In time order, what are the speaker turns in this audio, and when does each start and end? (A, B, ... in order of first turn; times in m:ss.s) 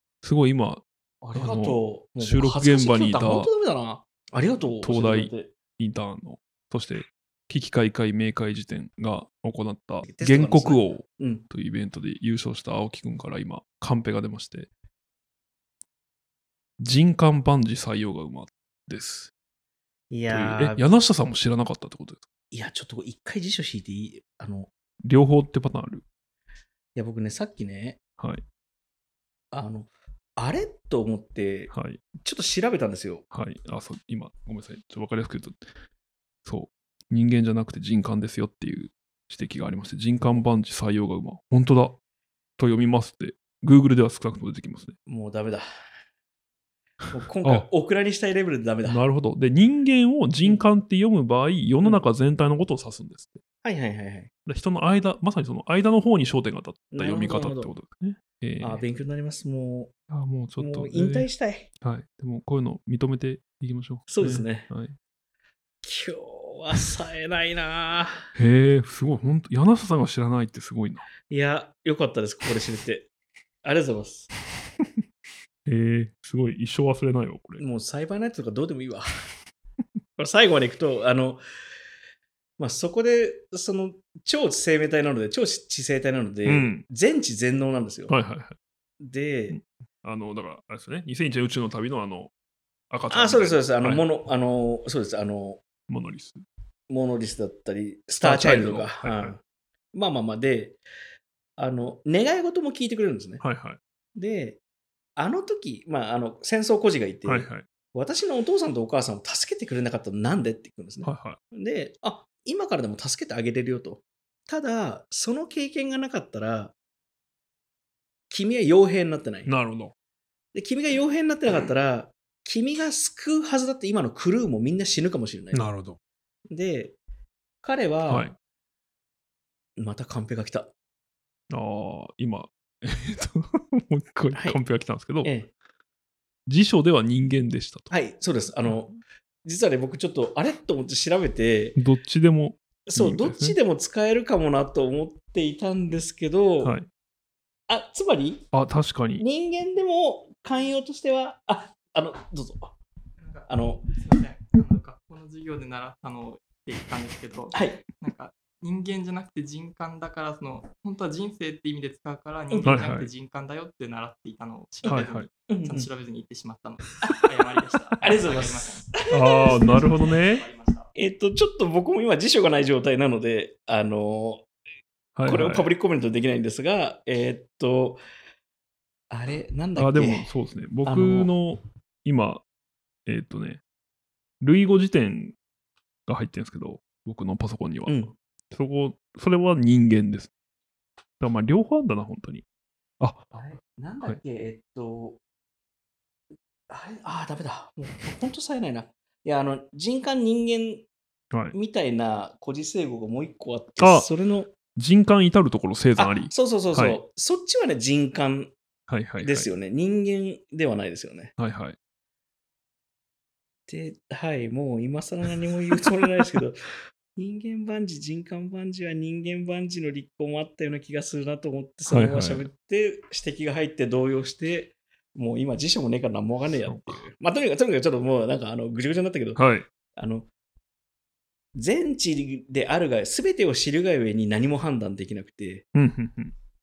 0:00.2-0:03.5 A
0:01.2-0:05.5 B
0:04.8-0:14.7 A
0:10.0-0:11.4 B
0:16.8-0:19.3 A
0:20.1-0:20.8 B
0:20.3-0:22.3 A
0:22.5-0:24.7 B
0:25.0-0:26.0 A
0:27.0-0:28.0 B
0:28.2-0:28.4 A
0:29.5-0:33.2 B
0:31.7-0:32.0 A
0:33.3-0:35.6 A
0:36.4-0:42.0 A
0:42.6-0:45.0 A
0:45.1-0:45.7 B
0:47.1-0:49.0 B
0:48.8-0:53.4 A
0:53.6-0:54.3 B
0:54.5-0:58.9 A
0:56.9-0:57.7 B
0:58.6-0:59.9 B
1:00.1-1:01.3 A
1:00.6-1:01.7 B
1:01.8-1:05.0 A
1:04.1-1:04.7 B
1:05.8-1:08.3 B
1:08.4-1:11.1 A
1:11.3-1:13.1 B
1:13.6-1:14.3 B
1:15.7-1:17.6 A
1:17.6-1:19.2 B
1:20.2-1:21.4 B
1:22.6-1:28.2 B
1:26.5-1:26.8 A
1:28.1-1:28.6 A
1:29.0-1:29.6 B
1:29.5-1:32.3 A
1:32.9-1:34.0 A
1:33.1-1:35.6 B
1:35.9-1:36.4 A
1:36.9-1:39.4 B
1:38.2-1:39.4 A
1:39.9-1:40.8 B
1:41.6-1:43.4 B
1:43.4-1:43.8 A
1:44.2-1:44.6 B
1:45.2-1:56.7 B
1:47.2-1:47.7 A
1:51.0-1:51.4 A
1:58.3-1:59.5 B
1:59.5-1:59.9 A
2:00.5-2:05.7 B
2:05.5-2:06.0 A
2:06.5-2:07.0 B
2:07.6-2:08.3 B
2:08.1-2:08.4 A
2:09.8-2:10.7 B
2:11.5-2:15.3 A
2:14.3-2:14.6 B
2:15.2-2:15.5 B
2:16.5-2:17.9 A
2:17.9-2:21.8 B
2:21.8-2:23.6 A
2:22.9-2:26.8 B
2:26.6-2:26.9 A
2:27.7-2:28.5 B
2:28.5-2:29.2 A
2:29.2-2:32.8 B
2:33.2-2:50.9 C
2:33.5-2:33.9 B
2:37.5-2:37.8 B
2:42.5-2:42.8 B
2:42.6-2:43.1 A
2:44.8-2:45.3 A
2:44.9-2:45.9 B
2:48.0-2:49.9 B
2:49.1-2:50.4 A
2:51.0-2:54.5 B
2:55.2-2:55.7 A
2:55.3-2:58.0 B
2:59.1-3:00.3 B
2:59.8-3:02.4 A
3:00.8-3:01.3 B
3:03.1-3:03.6 A
3:04.4-3:05.4 A
3:06.1-3:10.3 A
3:07.9-3:08.1 B
3:11.2-3:12.4 A
3:13.0-3:13.3 A
3:13.3-3:15.2 B
3:16.7-3:20.9 B
3:21.5-3:24.5 B
3:23.8-3:24.1 A
3:24.8-3:27.0 A
3:26.0-3:28.6 B
3:28.9-3:29.5 A
3:29.2-3:31.3 B
3:31.4-3:31.8 A
3:33.7-3:36.6 B
3:35.7-3:36.2 A
3:37.1-3:49.4 B
3:41.9-3:42.5 A
3:46.6-3:47.0 A
3:49.4-3:49.7 A
3:50.0-3:50.3 B
3:51.6-3:55.7 B
3:55.8-3:56.4 A